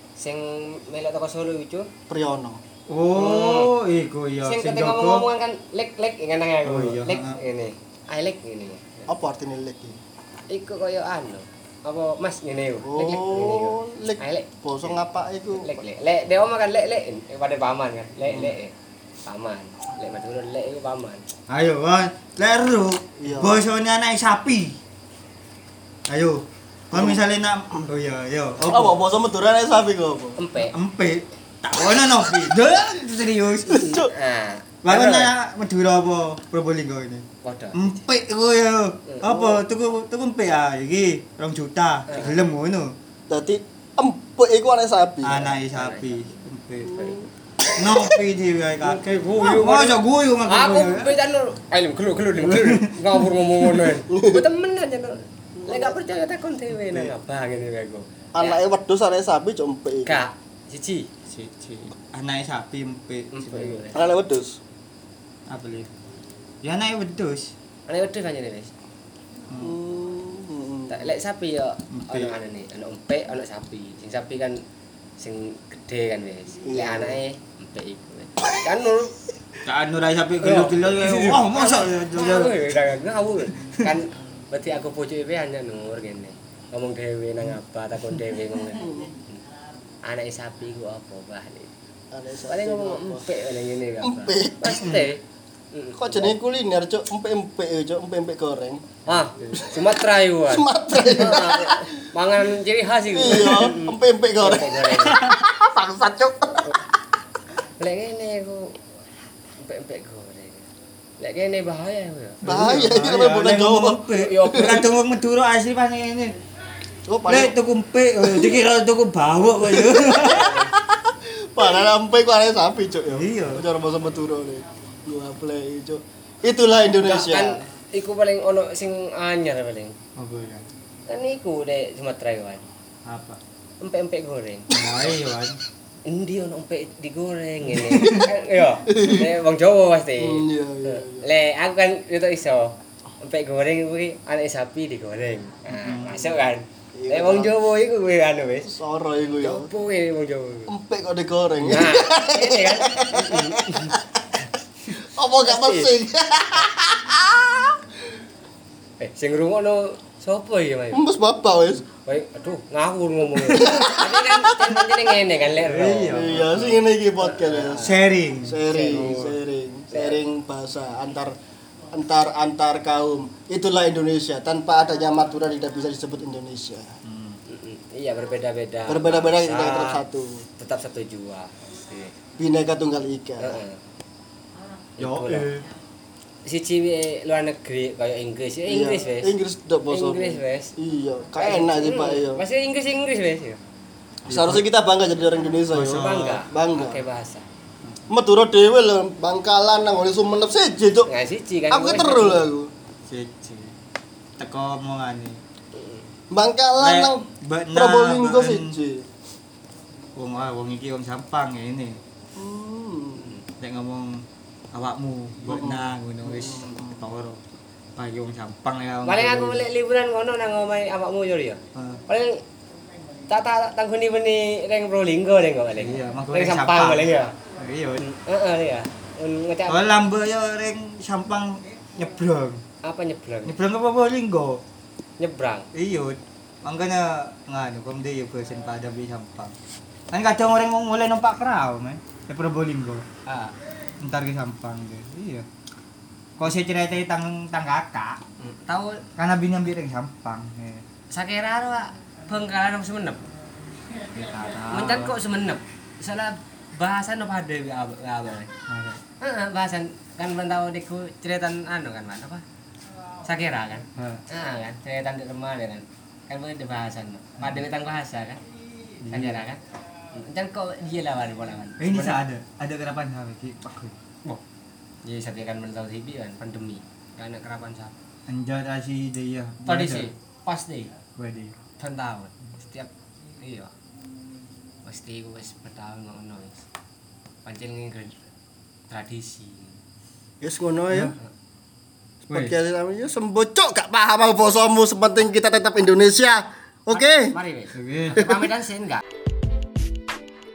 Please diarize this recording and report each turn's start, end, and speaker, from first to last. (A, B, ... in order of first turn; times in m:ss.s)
0:00.2-0:01.9 A
0:02.1-0:02.6 B
0:02.9-0:05.3 C
0:03.1-0:03.7 A
0:04.4-0:09.1 A
0:06.6-0:07.4 C
0:09.1-0:10.0 B
0:10.5-0:15.0 A
0:12.8-0:15.8 B
0:15.5-0:18.7 A
0:19.2-0:21.2 A
0:21.5-0:24.8 C
0:23.2-0:23.6 B
0:26.1-0:29.0 C
0:26.9-0:27.2 B
0:28.6-0:30.4 B
0:30.4-0:30.7 A
0:30.7-0:34.0 C
0:33.7-0:35.3 A
0:33.7-0:34.1 B
0:34.8-0:42.9 C
0:37.4-0:38.0 A
0:39.2-0:39.6 B
0:42.1-0:42.4 A
0:43.3-0:45.5 B
0:45.2-0:47.2 C
0:45.7-0:46.3 A
0:46.9-0:47.2 B
0:47.8-0:51.2 C
0:48.8-0:58.6 A
0:52.4-0:53.9 C
0:54.1-0:54.4 B
0:55.6-0:56.0 B
0:58.3-1:00.2 B
1:00.0-1:01.1 A
1:01.3-1:03.8 C
1:03.3-1:04.0 A
1:03.9-1:04.6 B
1:05.5-1:05.9 C
1:06.6-1:07.5 C
1:07.9-1:08.7 A
1:09.5-1:09.8 C
1:09.6-1:11.1 B
1:10.9-1:14.6 A
1:11.9-1:12.3 C
1:15.2-1:19.2 A
1:16.6-1:17.2 B
1:19.6-1:22.6 C
1:20.4-1:29.4 A
1:28.7-1:29.1 B
1:30.0-1:31.7 A
1:32.1-1:33.2 B
1:32.5-1:36.3 A
1:34.0-1:34.8 B
1:34.7-1:35.1 C
1:35.9-1:39.0 B
1:39.0-1:45.2 A
1:39.5-1:39.9 B
1:40.5-1:41.9 B
1:43.1-1:46.8 B
1:47.8-1:48.8 A
1:49.6-1:50.6 A
1:51.2-1:52.4 A
1:52.4-1:54.8 B
1:52.4-1:56.4 C
1:54.1-1:54.8 A
1:57.1-1:57.6 B
1:57.2-2:00.5 C
1:58.2-1:58.6 B
1:59.6-2:07.6 B
2:00.2-2:00.7 A
2:03.1-2:03.6 C
2:06.8-2:10.0 A
2:10.2-2:10.6 C
2:11.1-2:12.6 A
2:13.0-2:13.4 C
2:13.8-2:14.9 A
2:14.7-2:15.6 C
2:16.0-2:28.7 A
2:17.7-2:18.3 C
2:18.9-2:19.3 B
2:20.2-2:21.2 B
2:25.7-2:26.4 C
2:26.9-2:27.5 B
2:28.7-2:29.7 B
2:29.4-2:30.7 A
2:30.7-2:34.2 B
2:31.7-2:34.0 A
2:35.0-2:37.8 B
2:35.4-2:35.9 A
2:39.0-2:41.0 A
2:40.9-2:41.9 B
2:42.0-2:46.3 A
2:43.4-2:45.0 B
2:45.6-2:46.8 C
2:46.1-2:51.4 B
2:47.2-2:47.9 A
2:47.8-2:49.1 C
2:48.7-2:49.3 A
2:49.9-2:50.2 A
2:51.9-2:56.9 B
2:57.0-2:57.4 C
2:57.4-3:00.0 A
2:58.9-3:00.4 B
3:00.6-3:02.2 A
3:02.4-3:03.6 B
3:03.4-3:03.8 A
3:05.0-3:05.5 A
3:05.0-3:05.6 C
3:06.4-3:09.3 A
3:08.7-3:12.4 B
3:09.9-3:10.7 A
3:11.4-3:13.6 A
3:14.2-3:17.0 B
3:14.3-3:14.6 C
3:15.7-3:16.4 C
3:15.9-3:17.4 A
3:18.1-3:21.1 B
3:21.1-3:22.5 A
3:21.7-3:22.7 B
3:23.1-3:23.7 C
3:24.4-3:25.4 C
3:25.7-3:26.1 A
3:26.3-3:29.1 B
3:26.8-3:28.7 C
3:30.2-3:32.0 C
3:32.4-3:33.3 B
3:33.6-3:37.4 C
3:35.5-3:37.0 B
3:38.0-3:39.6 C
3:39.0-3:42.4 A
3:41.7-3:42.0 C
3:43.3-3:47.4 A
3:45.8-3:48.0 C
3:48.0-3:49.9 A
3:49.7-3:52.6 C
3:52.8-3:53.6 A
3:53.4-3:54.6 C
3:55.2-3:55.7 A
3:55.7-3:59.5 C
4:00.1-4:03.0 C
4:03.2-4:03.5 A
4:04.0-4:05.4 C
4:06.4-4:08.2 C
4:08.4-4:09.1 A
4:09.2-4:10.8 C
4:11.1-4:13.2 A
4:14.1-4:15.2 C
4:14.7-4:18.5 A
4:18.7-4:19.0 C
4:19.2-4:22.4 A
4:23.2-4:28.4 A
4:24.0-4:24.2 C
4:29.0-4:29.4 C
4:29.1-4:29.6 A
4:30.1-4:32.2 A
4:31.8-4:33.9 C
4:35.0-4:37.9 A
4:38.3-4:40.1 C
4:39.6-4:40.9 A
4:41.2-4:41.5 C
4:41.8-4:43.7 A
4:44.8-4:46.6 A
4:47.4-4:48.2 A
4:48.9-4:49.8 A
4:50.4-4:51.1 B
4:50.9-4:51.2 C
4:52.3-4:52.6 C
4:52.3-4:57.3 B
4:57.0-4:59.0 A
4:57.7-4:58.4 C